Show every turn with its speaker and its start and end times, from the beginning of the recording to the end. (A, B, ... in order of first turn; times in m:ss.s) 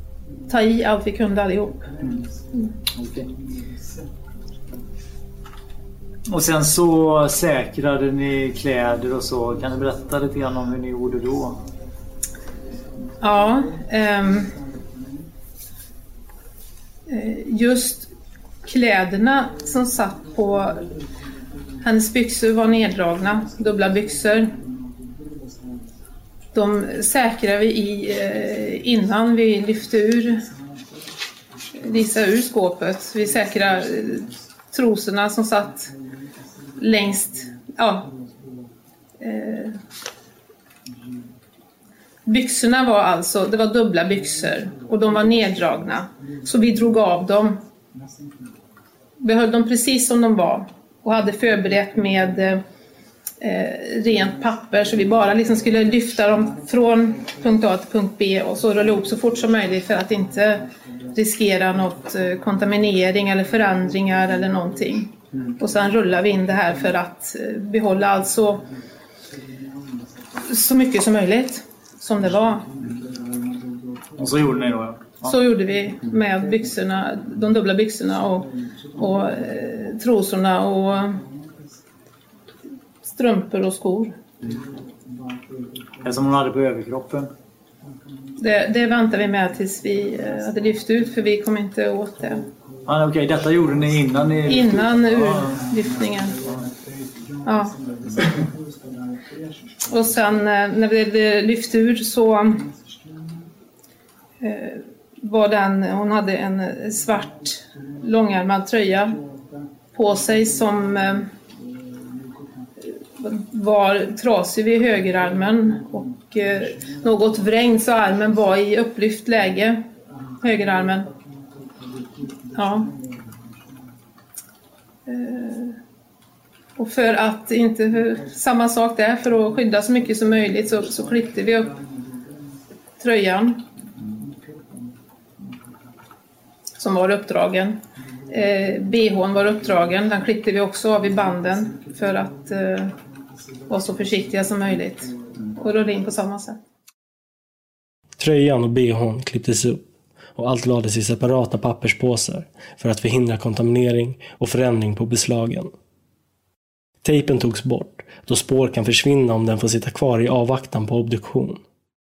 0:00.5-0:01.9 A
0:02.0-0:02.3 B
0:02.9-0:03.3 B
0:06.3-0:11.6 B
0:13.2-0:14.5 A
0:17.1-0:18.1 A
0:18.6-0:20.8 A
0:21.8-0:24.5 A
0:26.5-0:30.4 A
0:31.8-0:35.9 A
0:36.8-0:38.1 A
0:39.2-0:39.8 A
0:42.3-0:47.6 A
0:49.2-0:52.6 A
0:53.4-1:08.6 A
1:10.5-1:12.6 A
1:14.2-1:15.4 B
1:15.2-1:21.2 A
1:23.1-1:24.2 A
1:26.0-1:27.3 B
1:28.4-1:32.4 A
1:32.9-1:35.7 B
1:34.5-1:36.4 A
1:37.4-1:37.8 A
1:39.9-1:42.6 A
1:44.4-1:49.2 A
1:49.9-1:51.3 A
1:53.2-1:59.8 A
2:00.4-2:01.1 A
2:02.6-2:02.9 A
2:05.1-2:05.8 A
2:06.8-2:11.8 A
2:13.0-2:13.6 A
2:16.8-2:17.8 A
2:18.3-2:22.9 A
2:23.7-2:26.6 A
2:28.2-2:35.7 C
2:37.0-2:41.6 C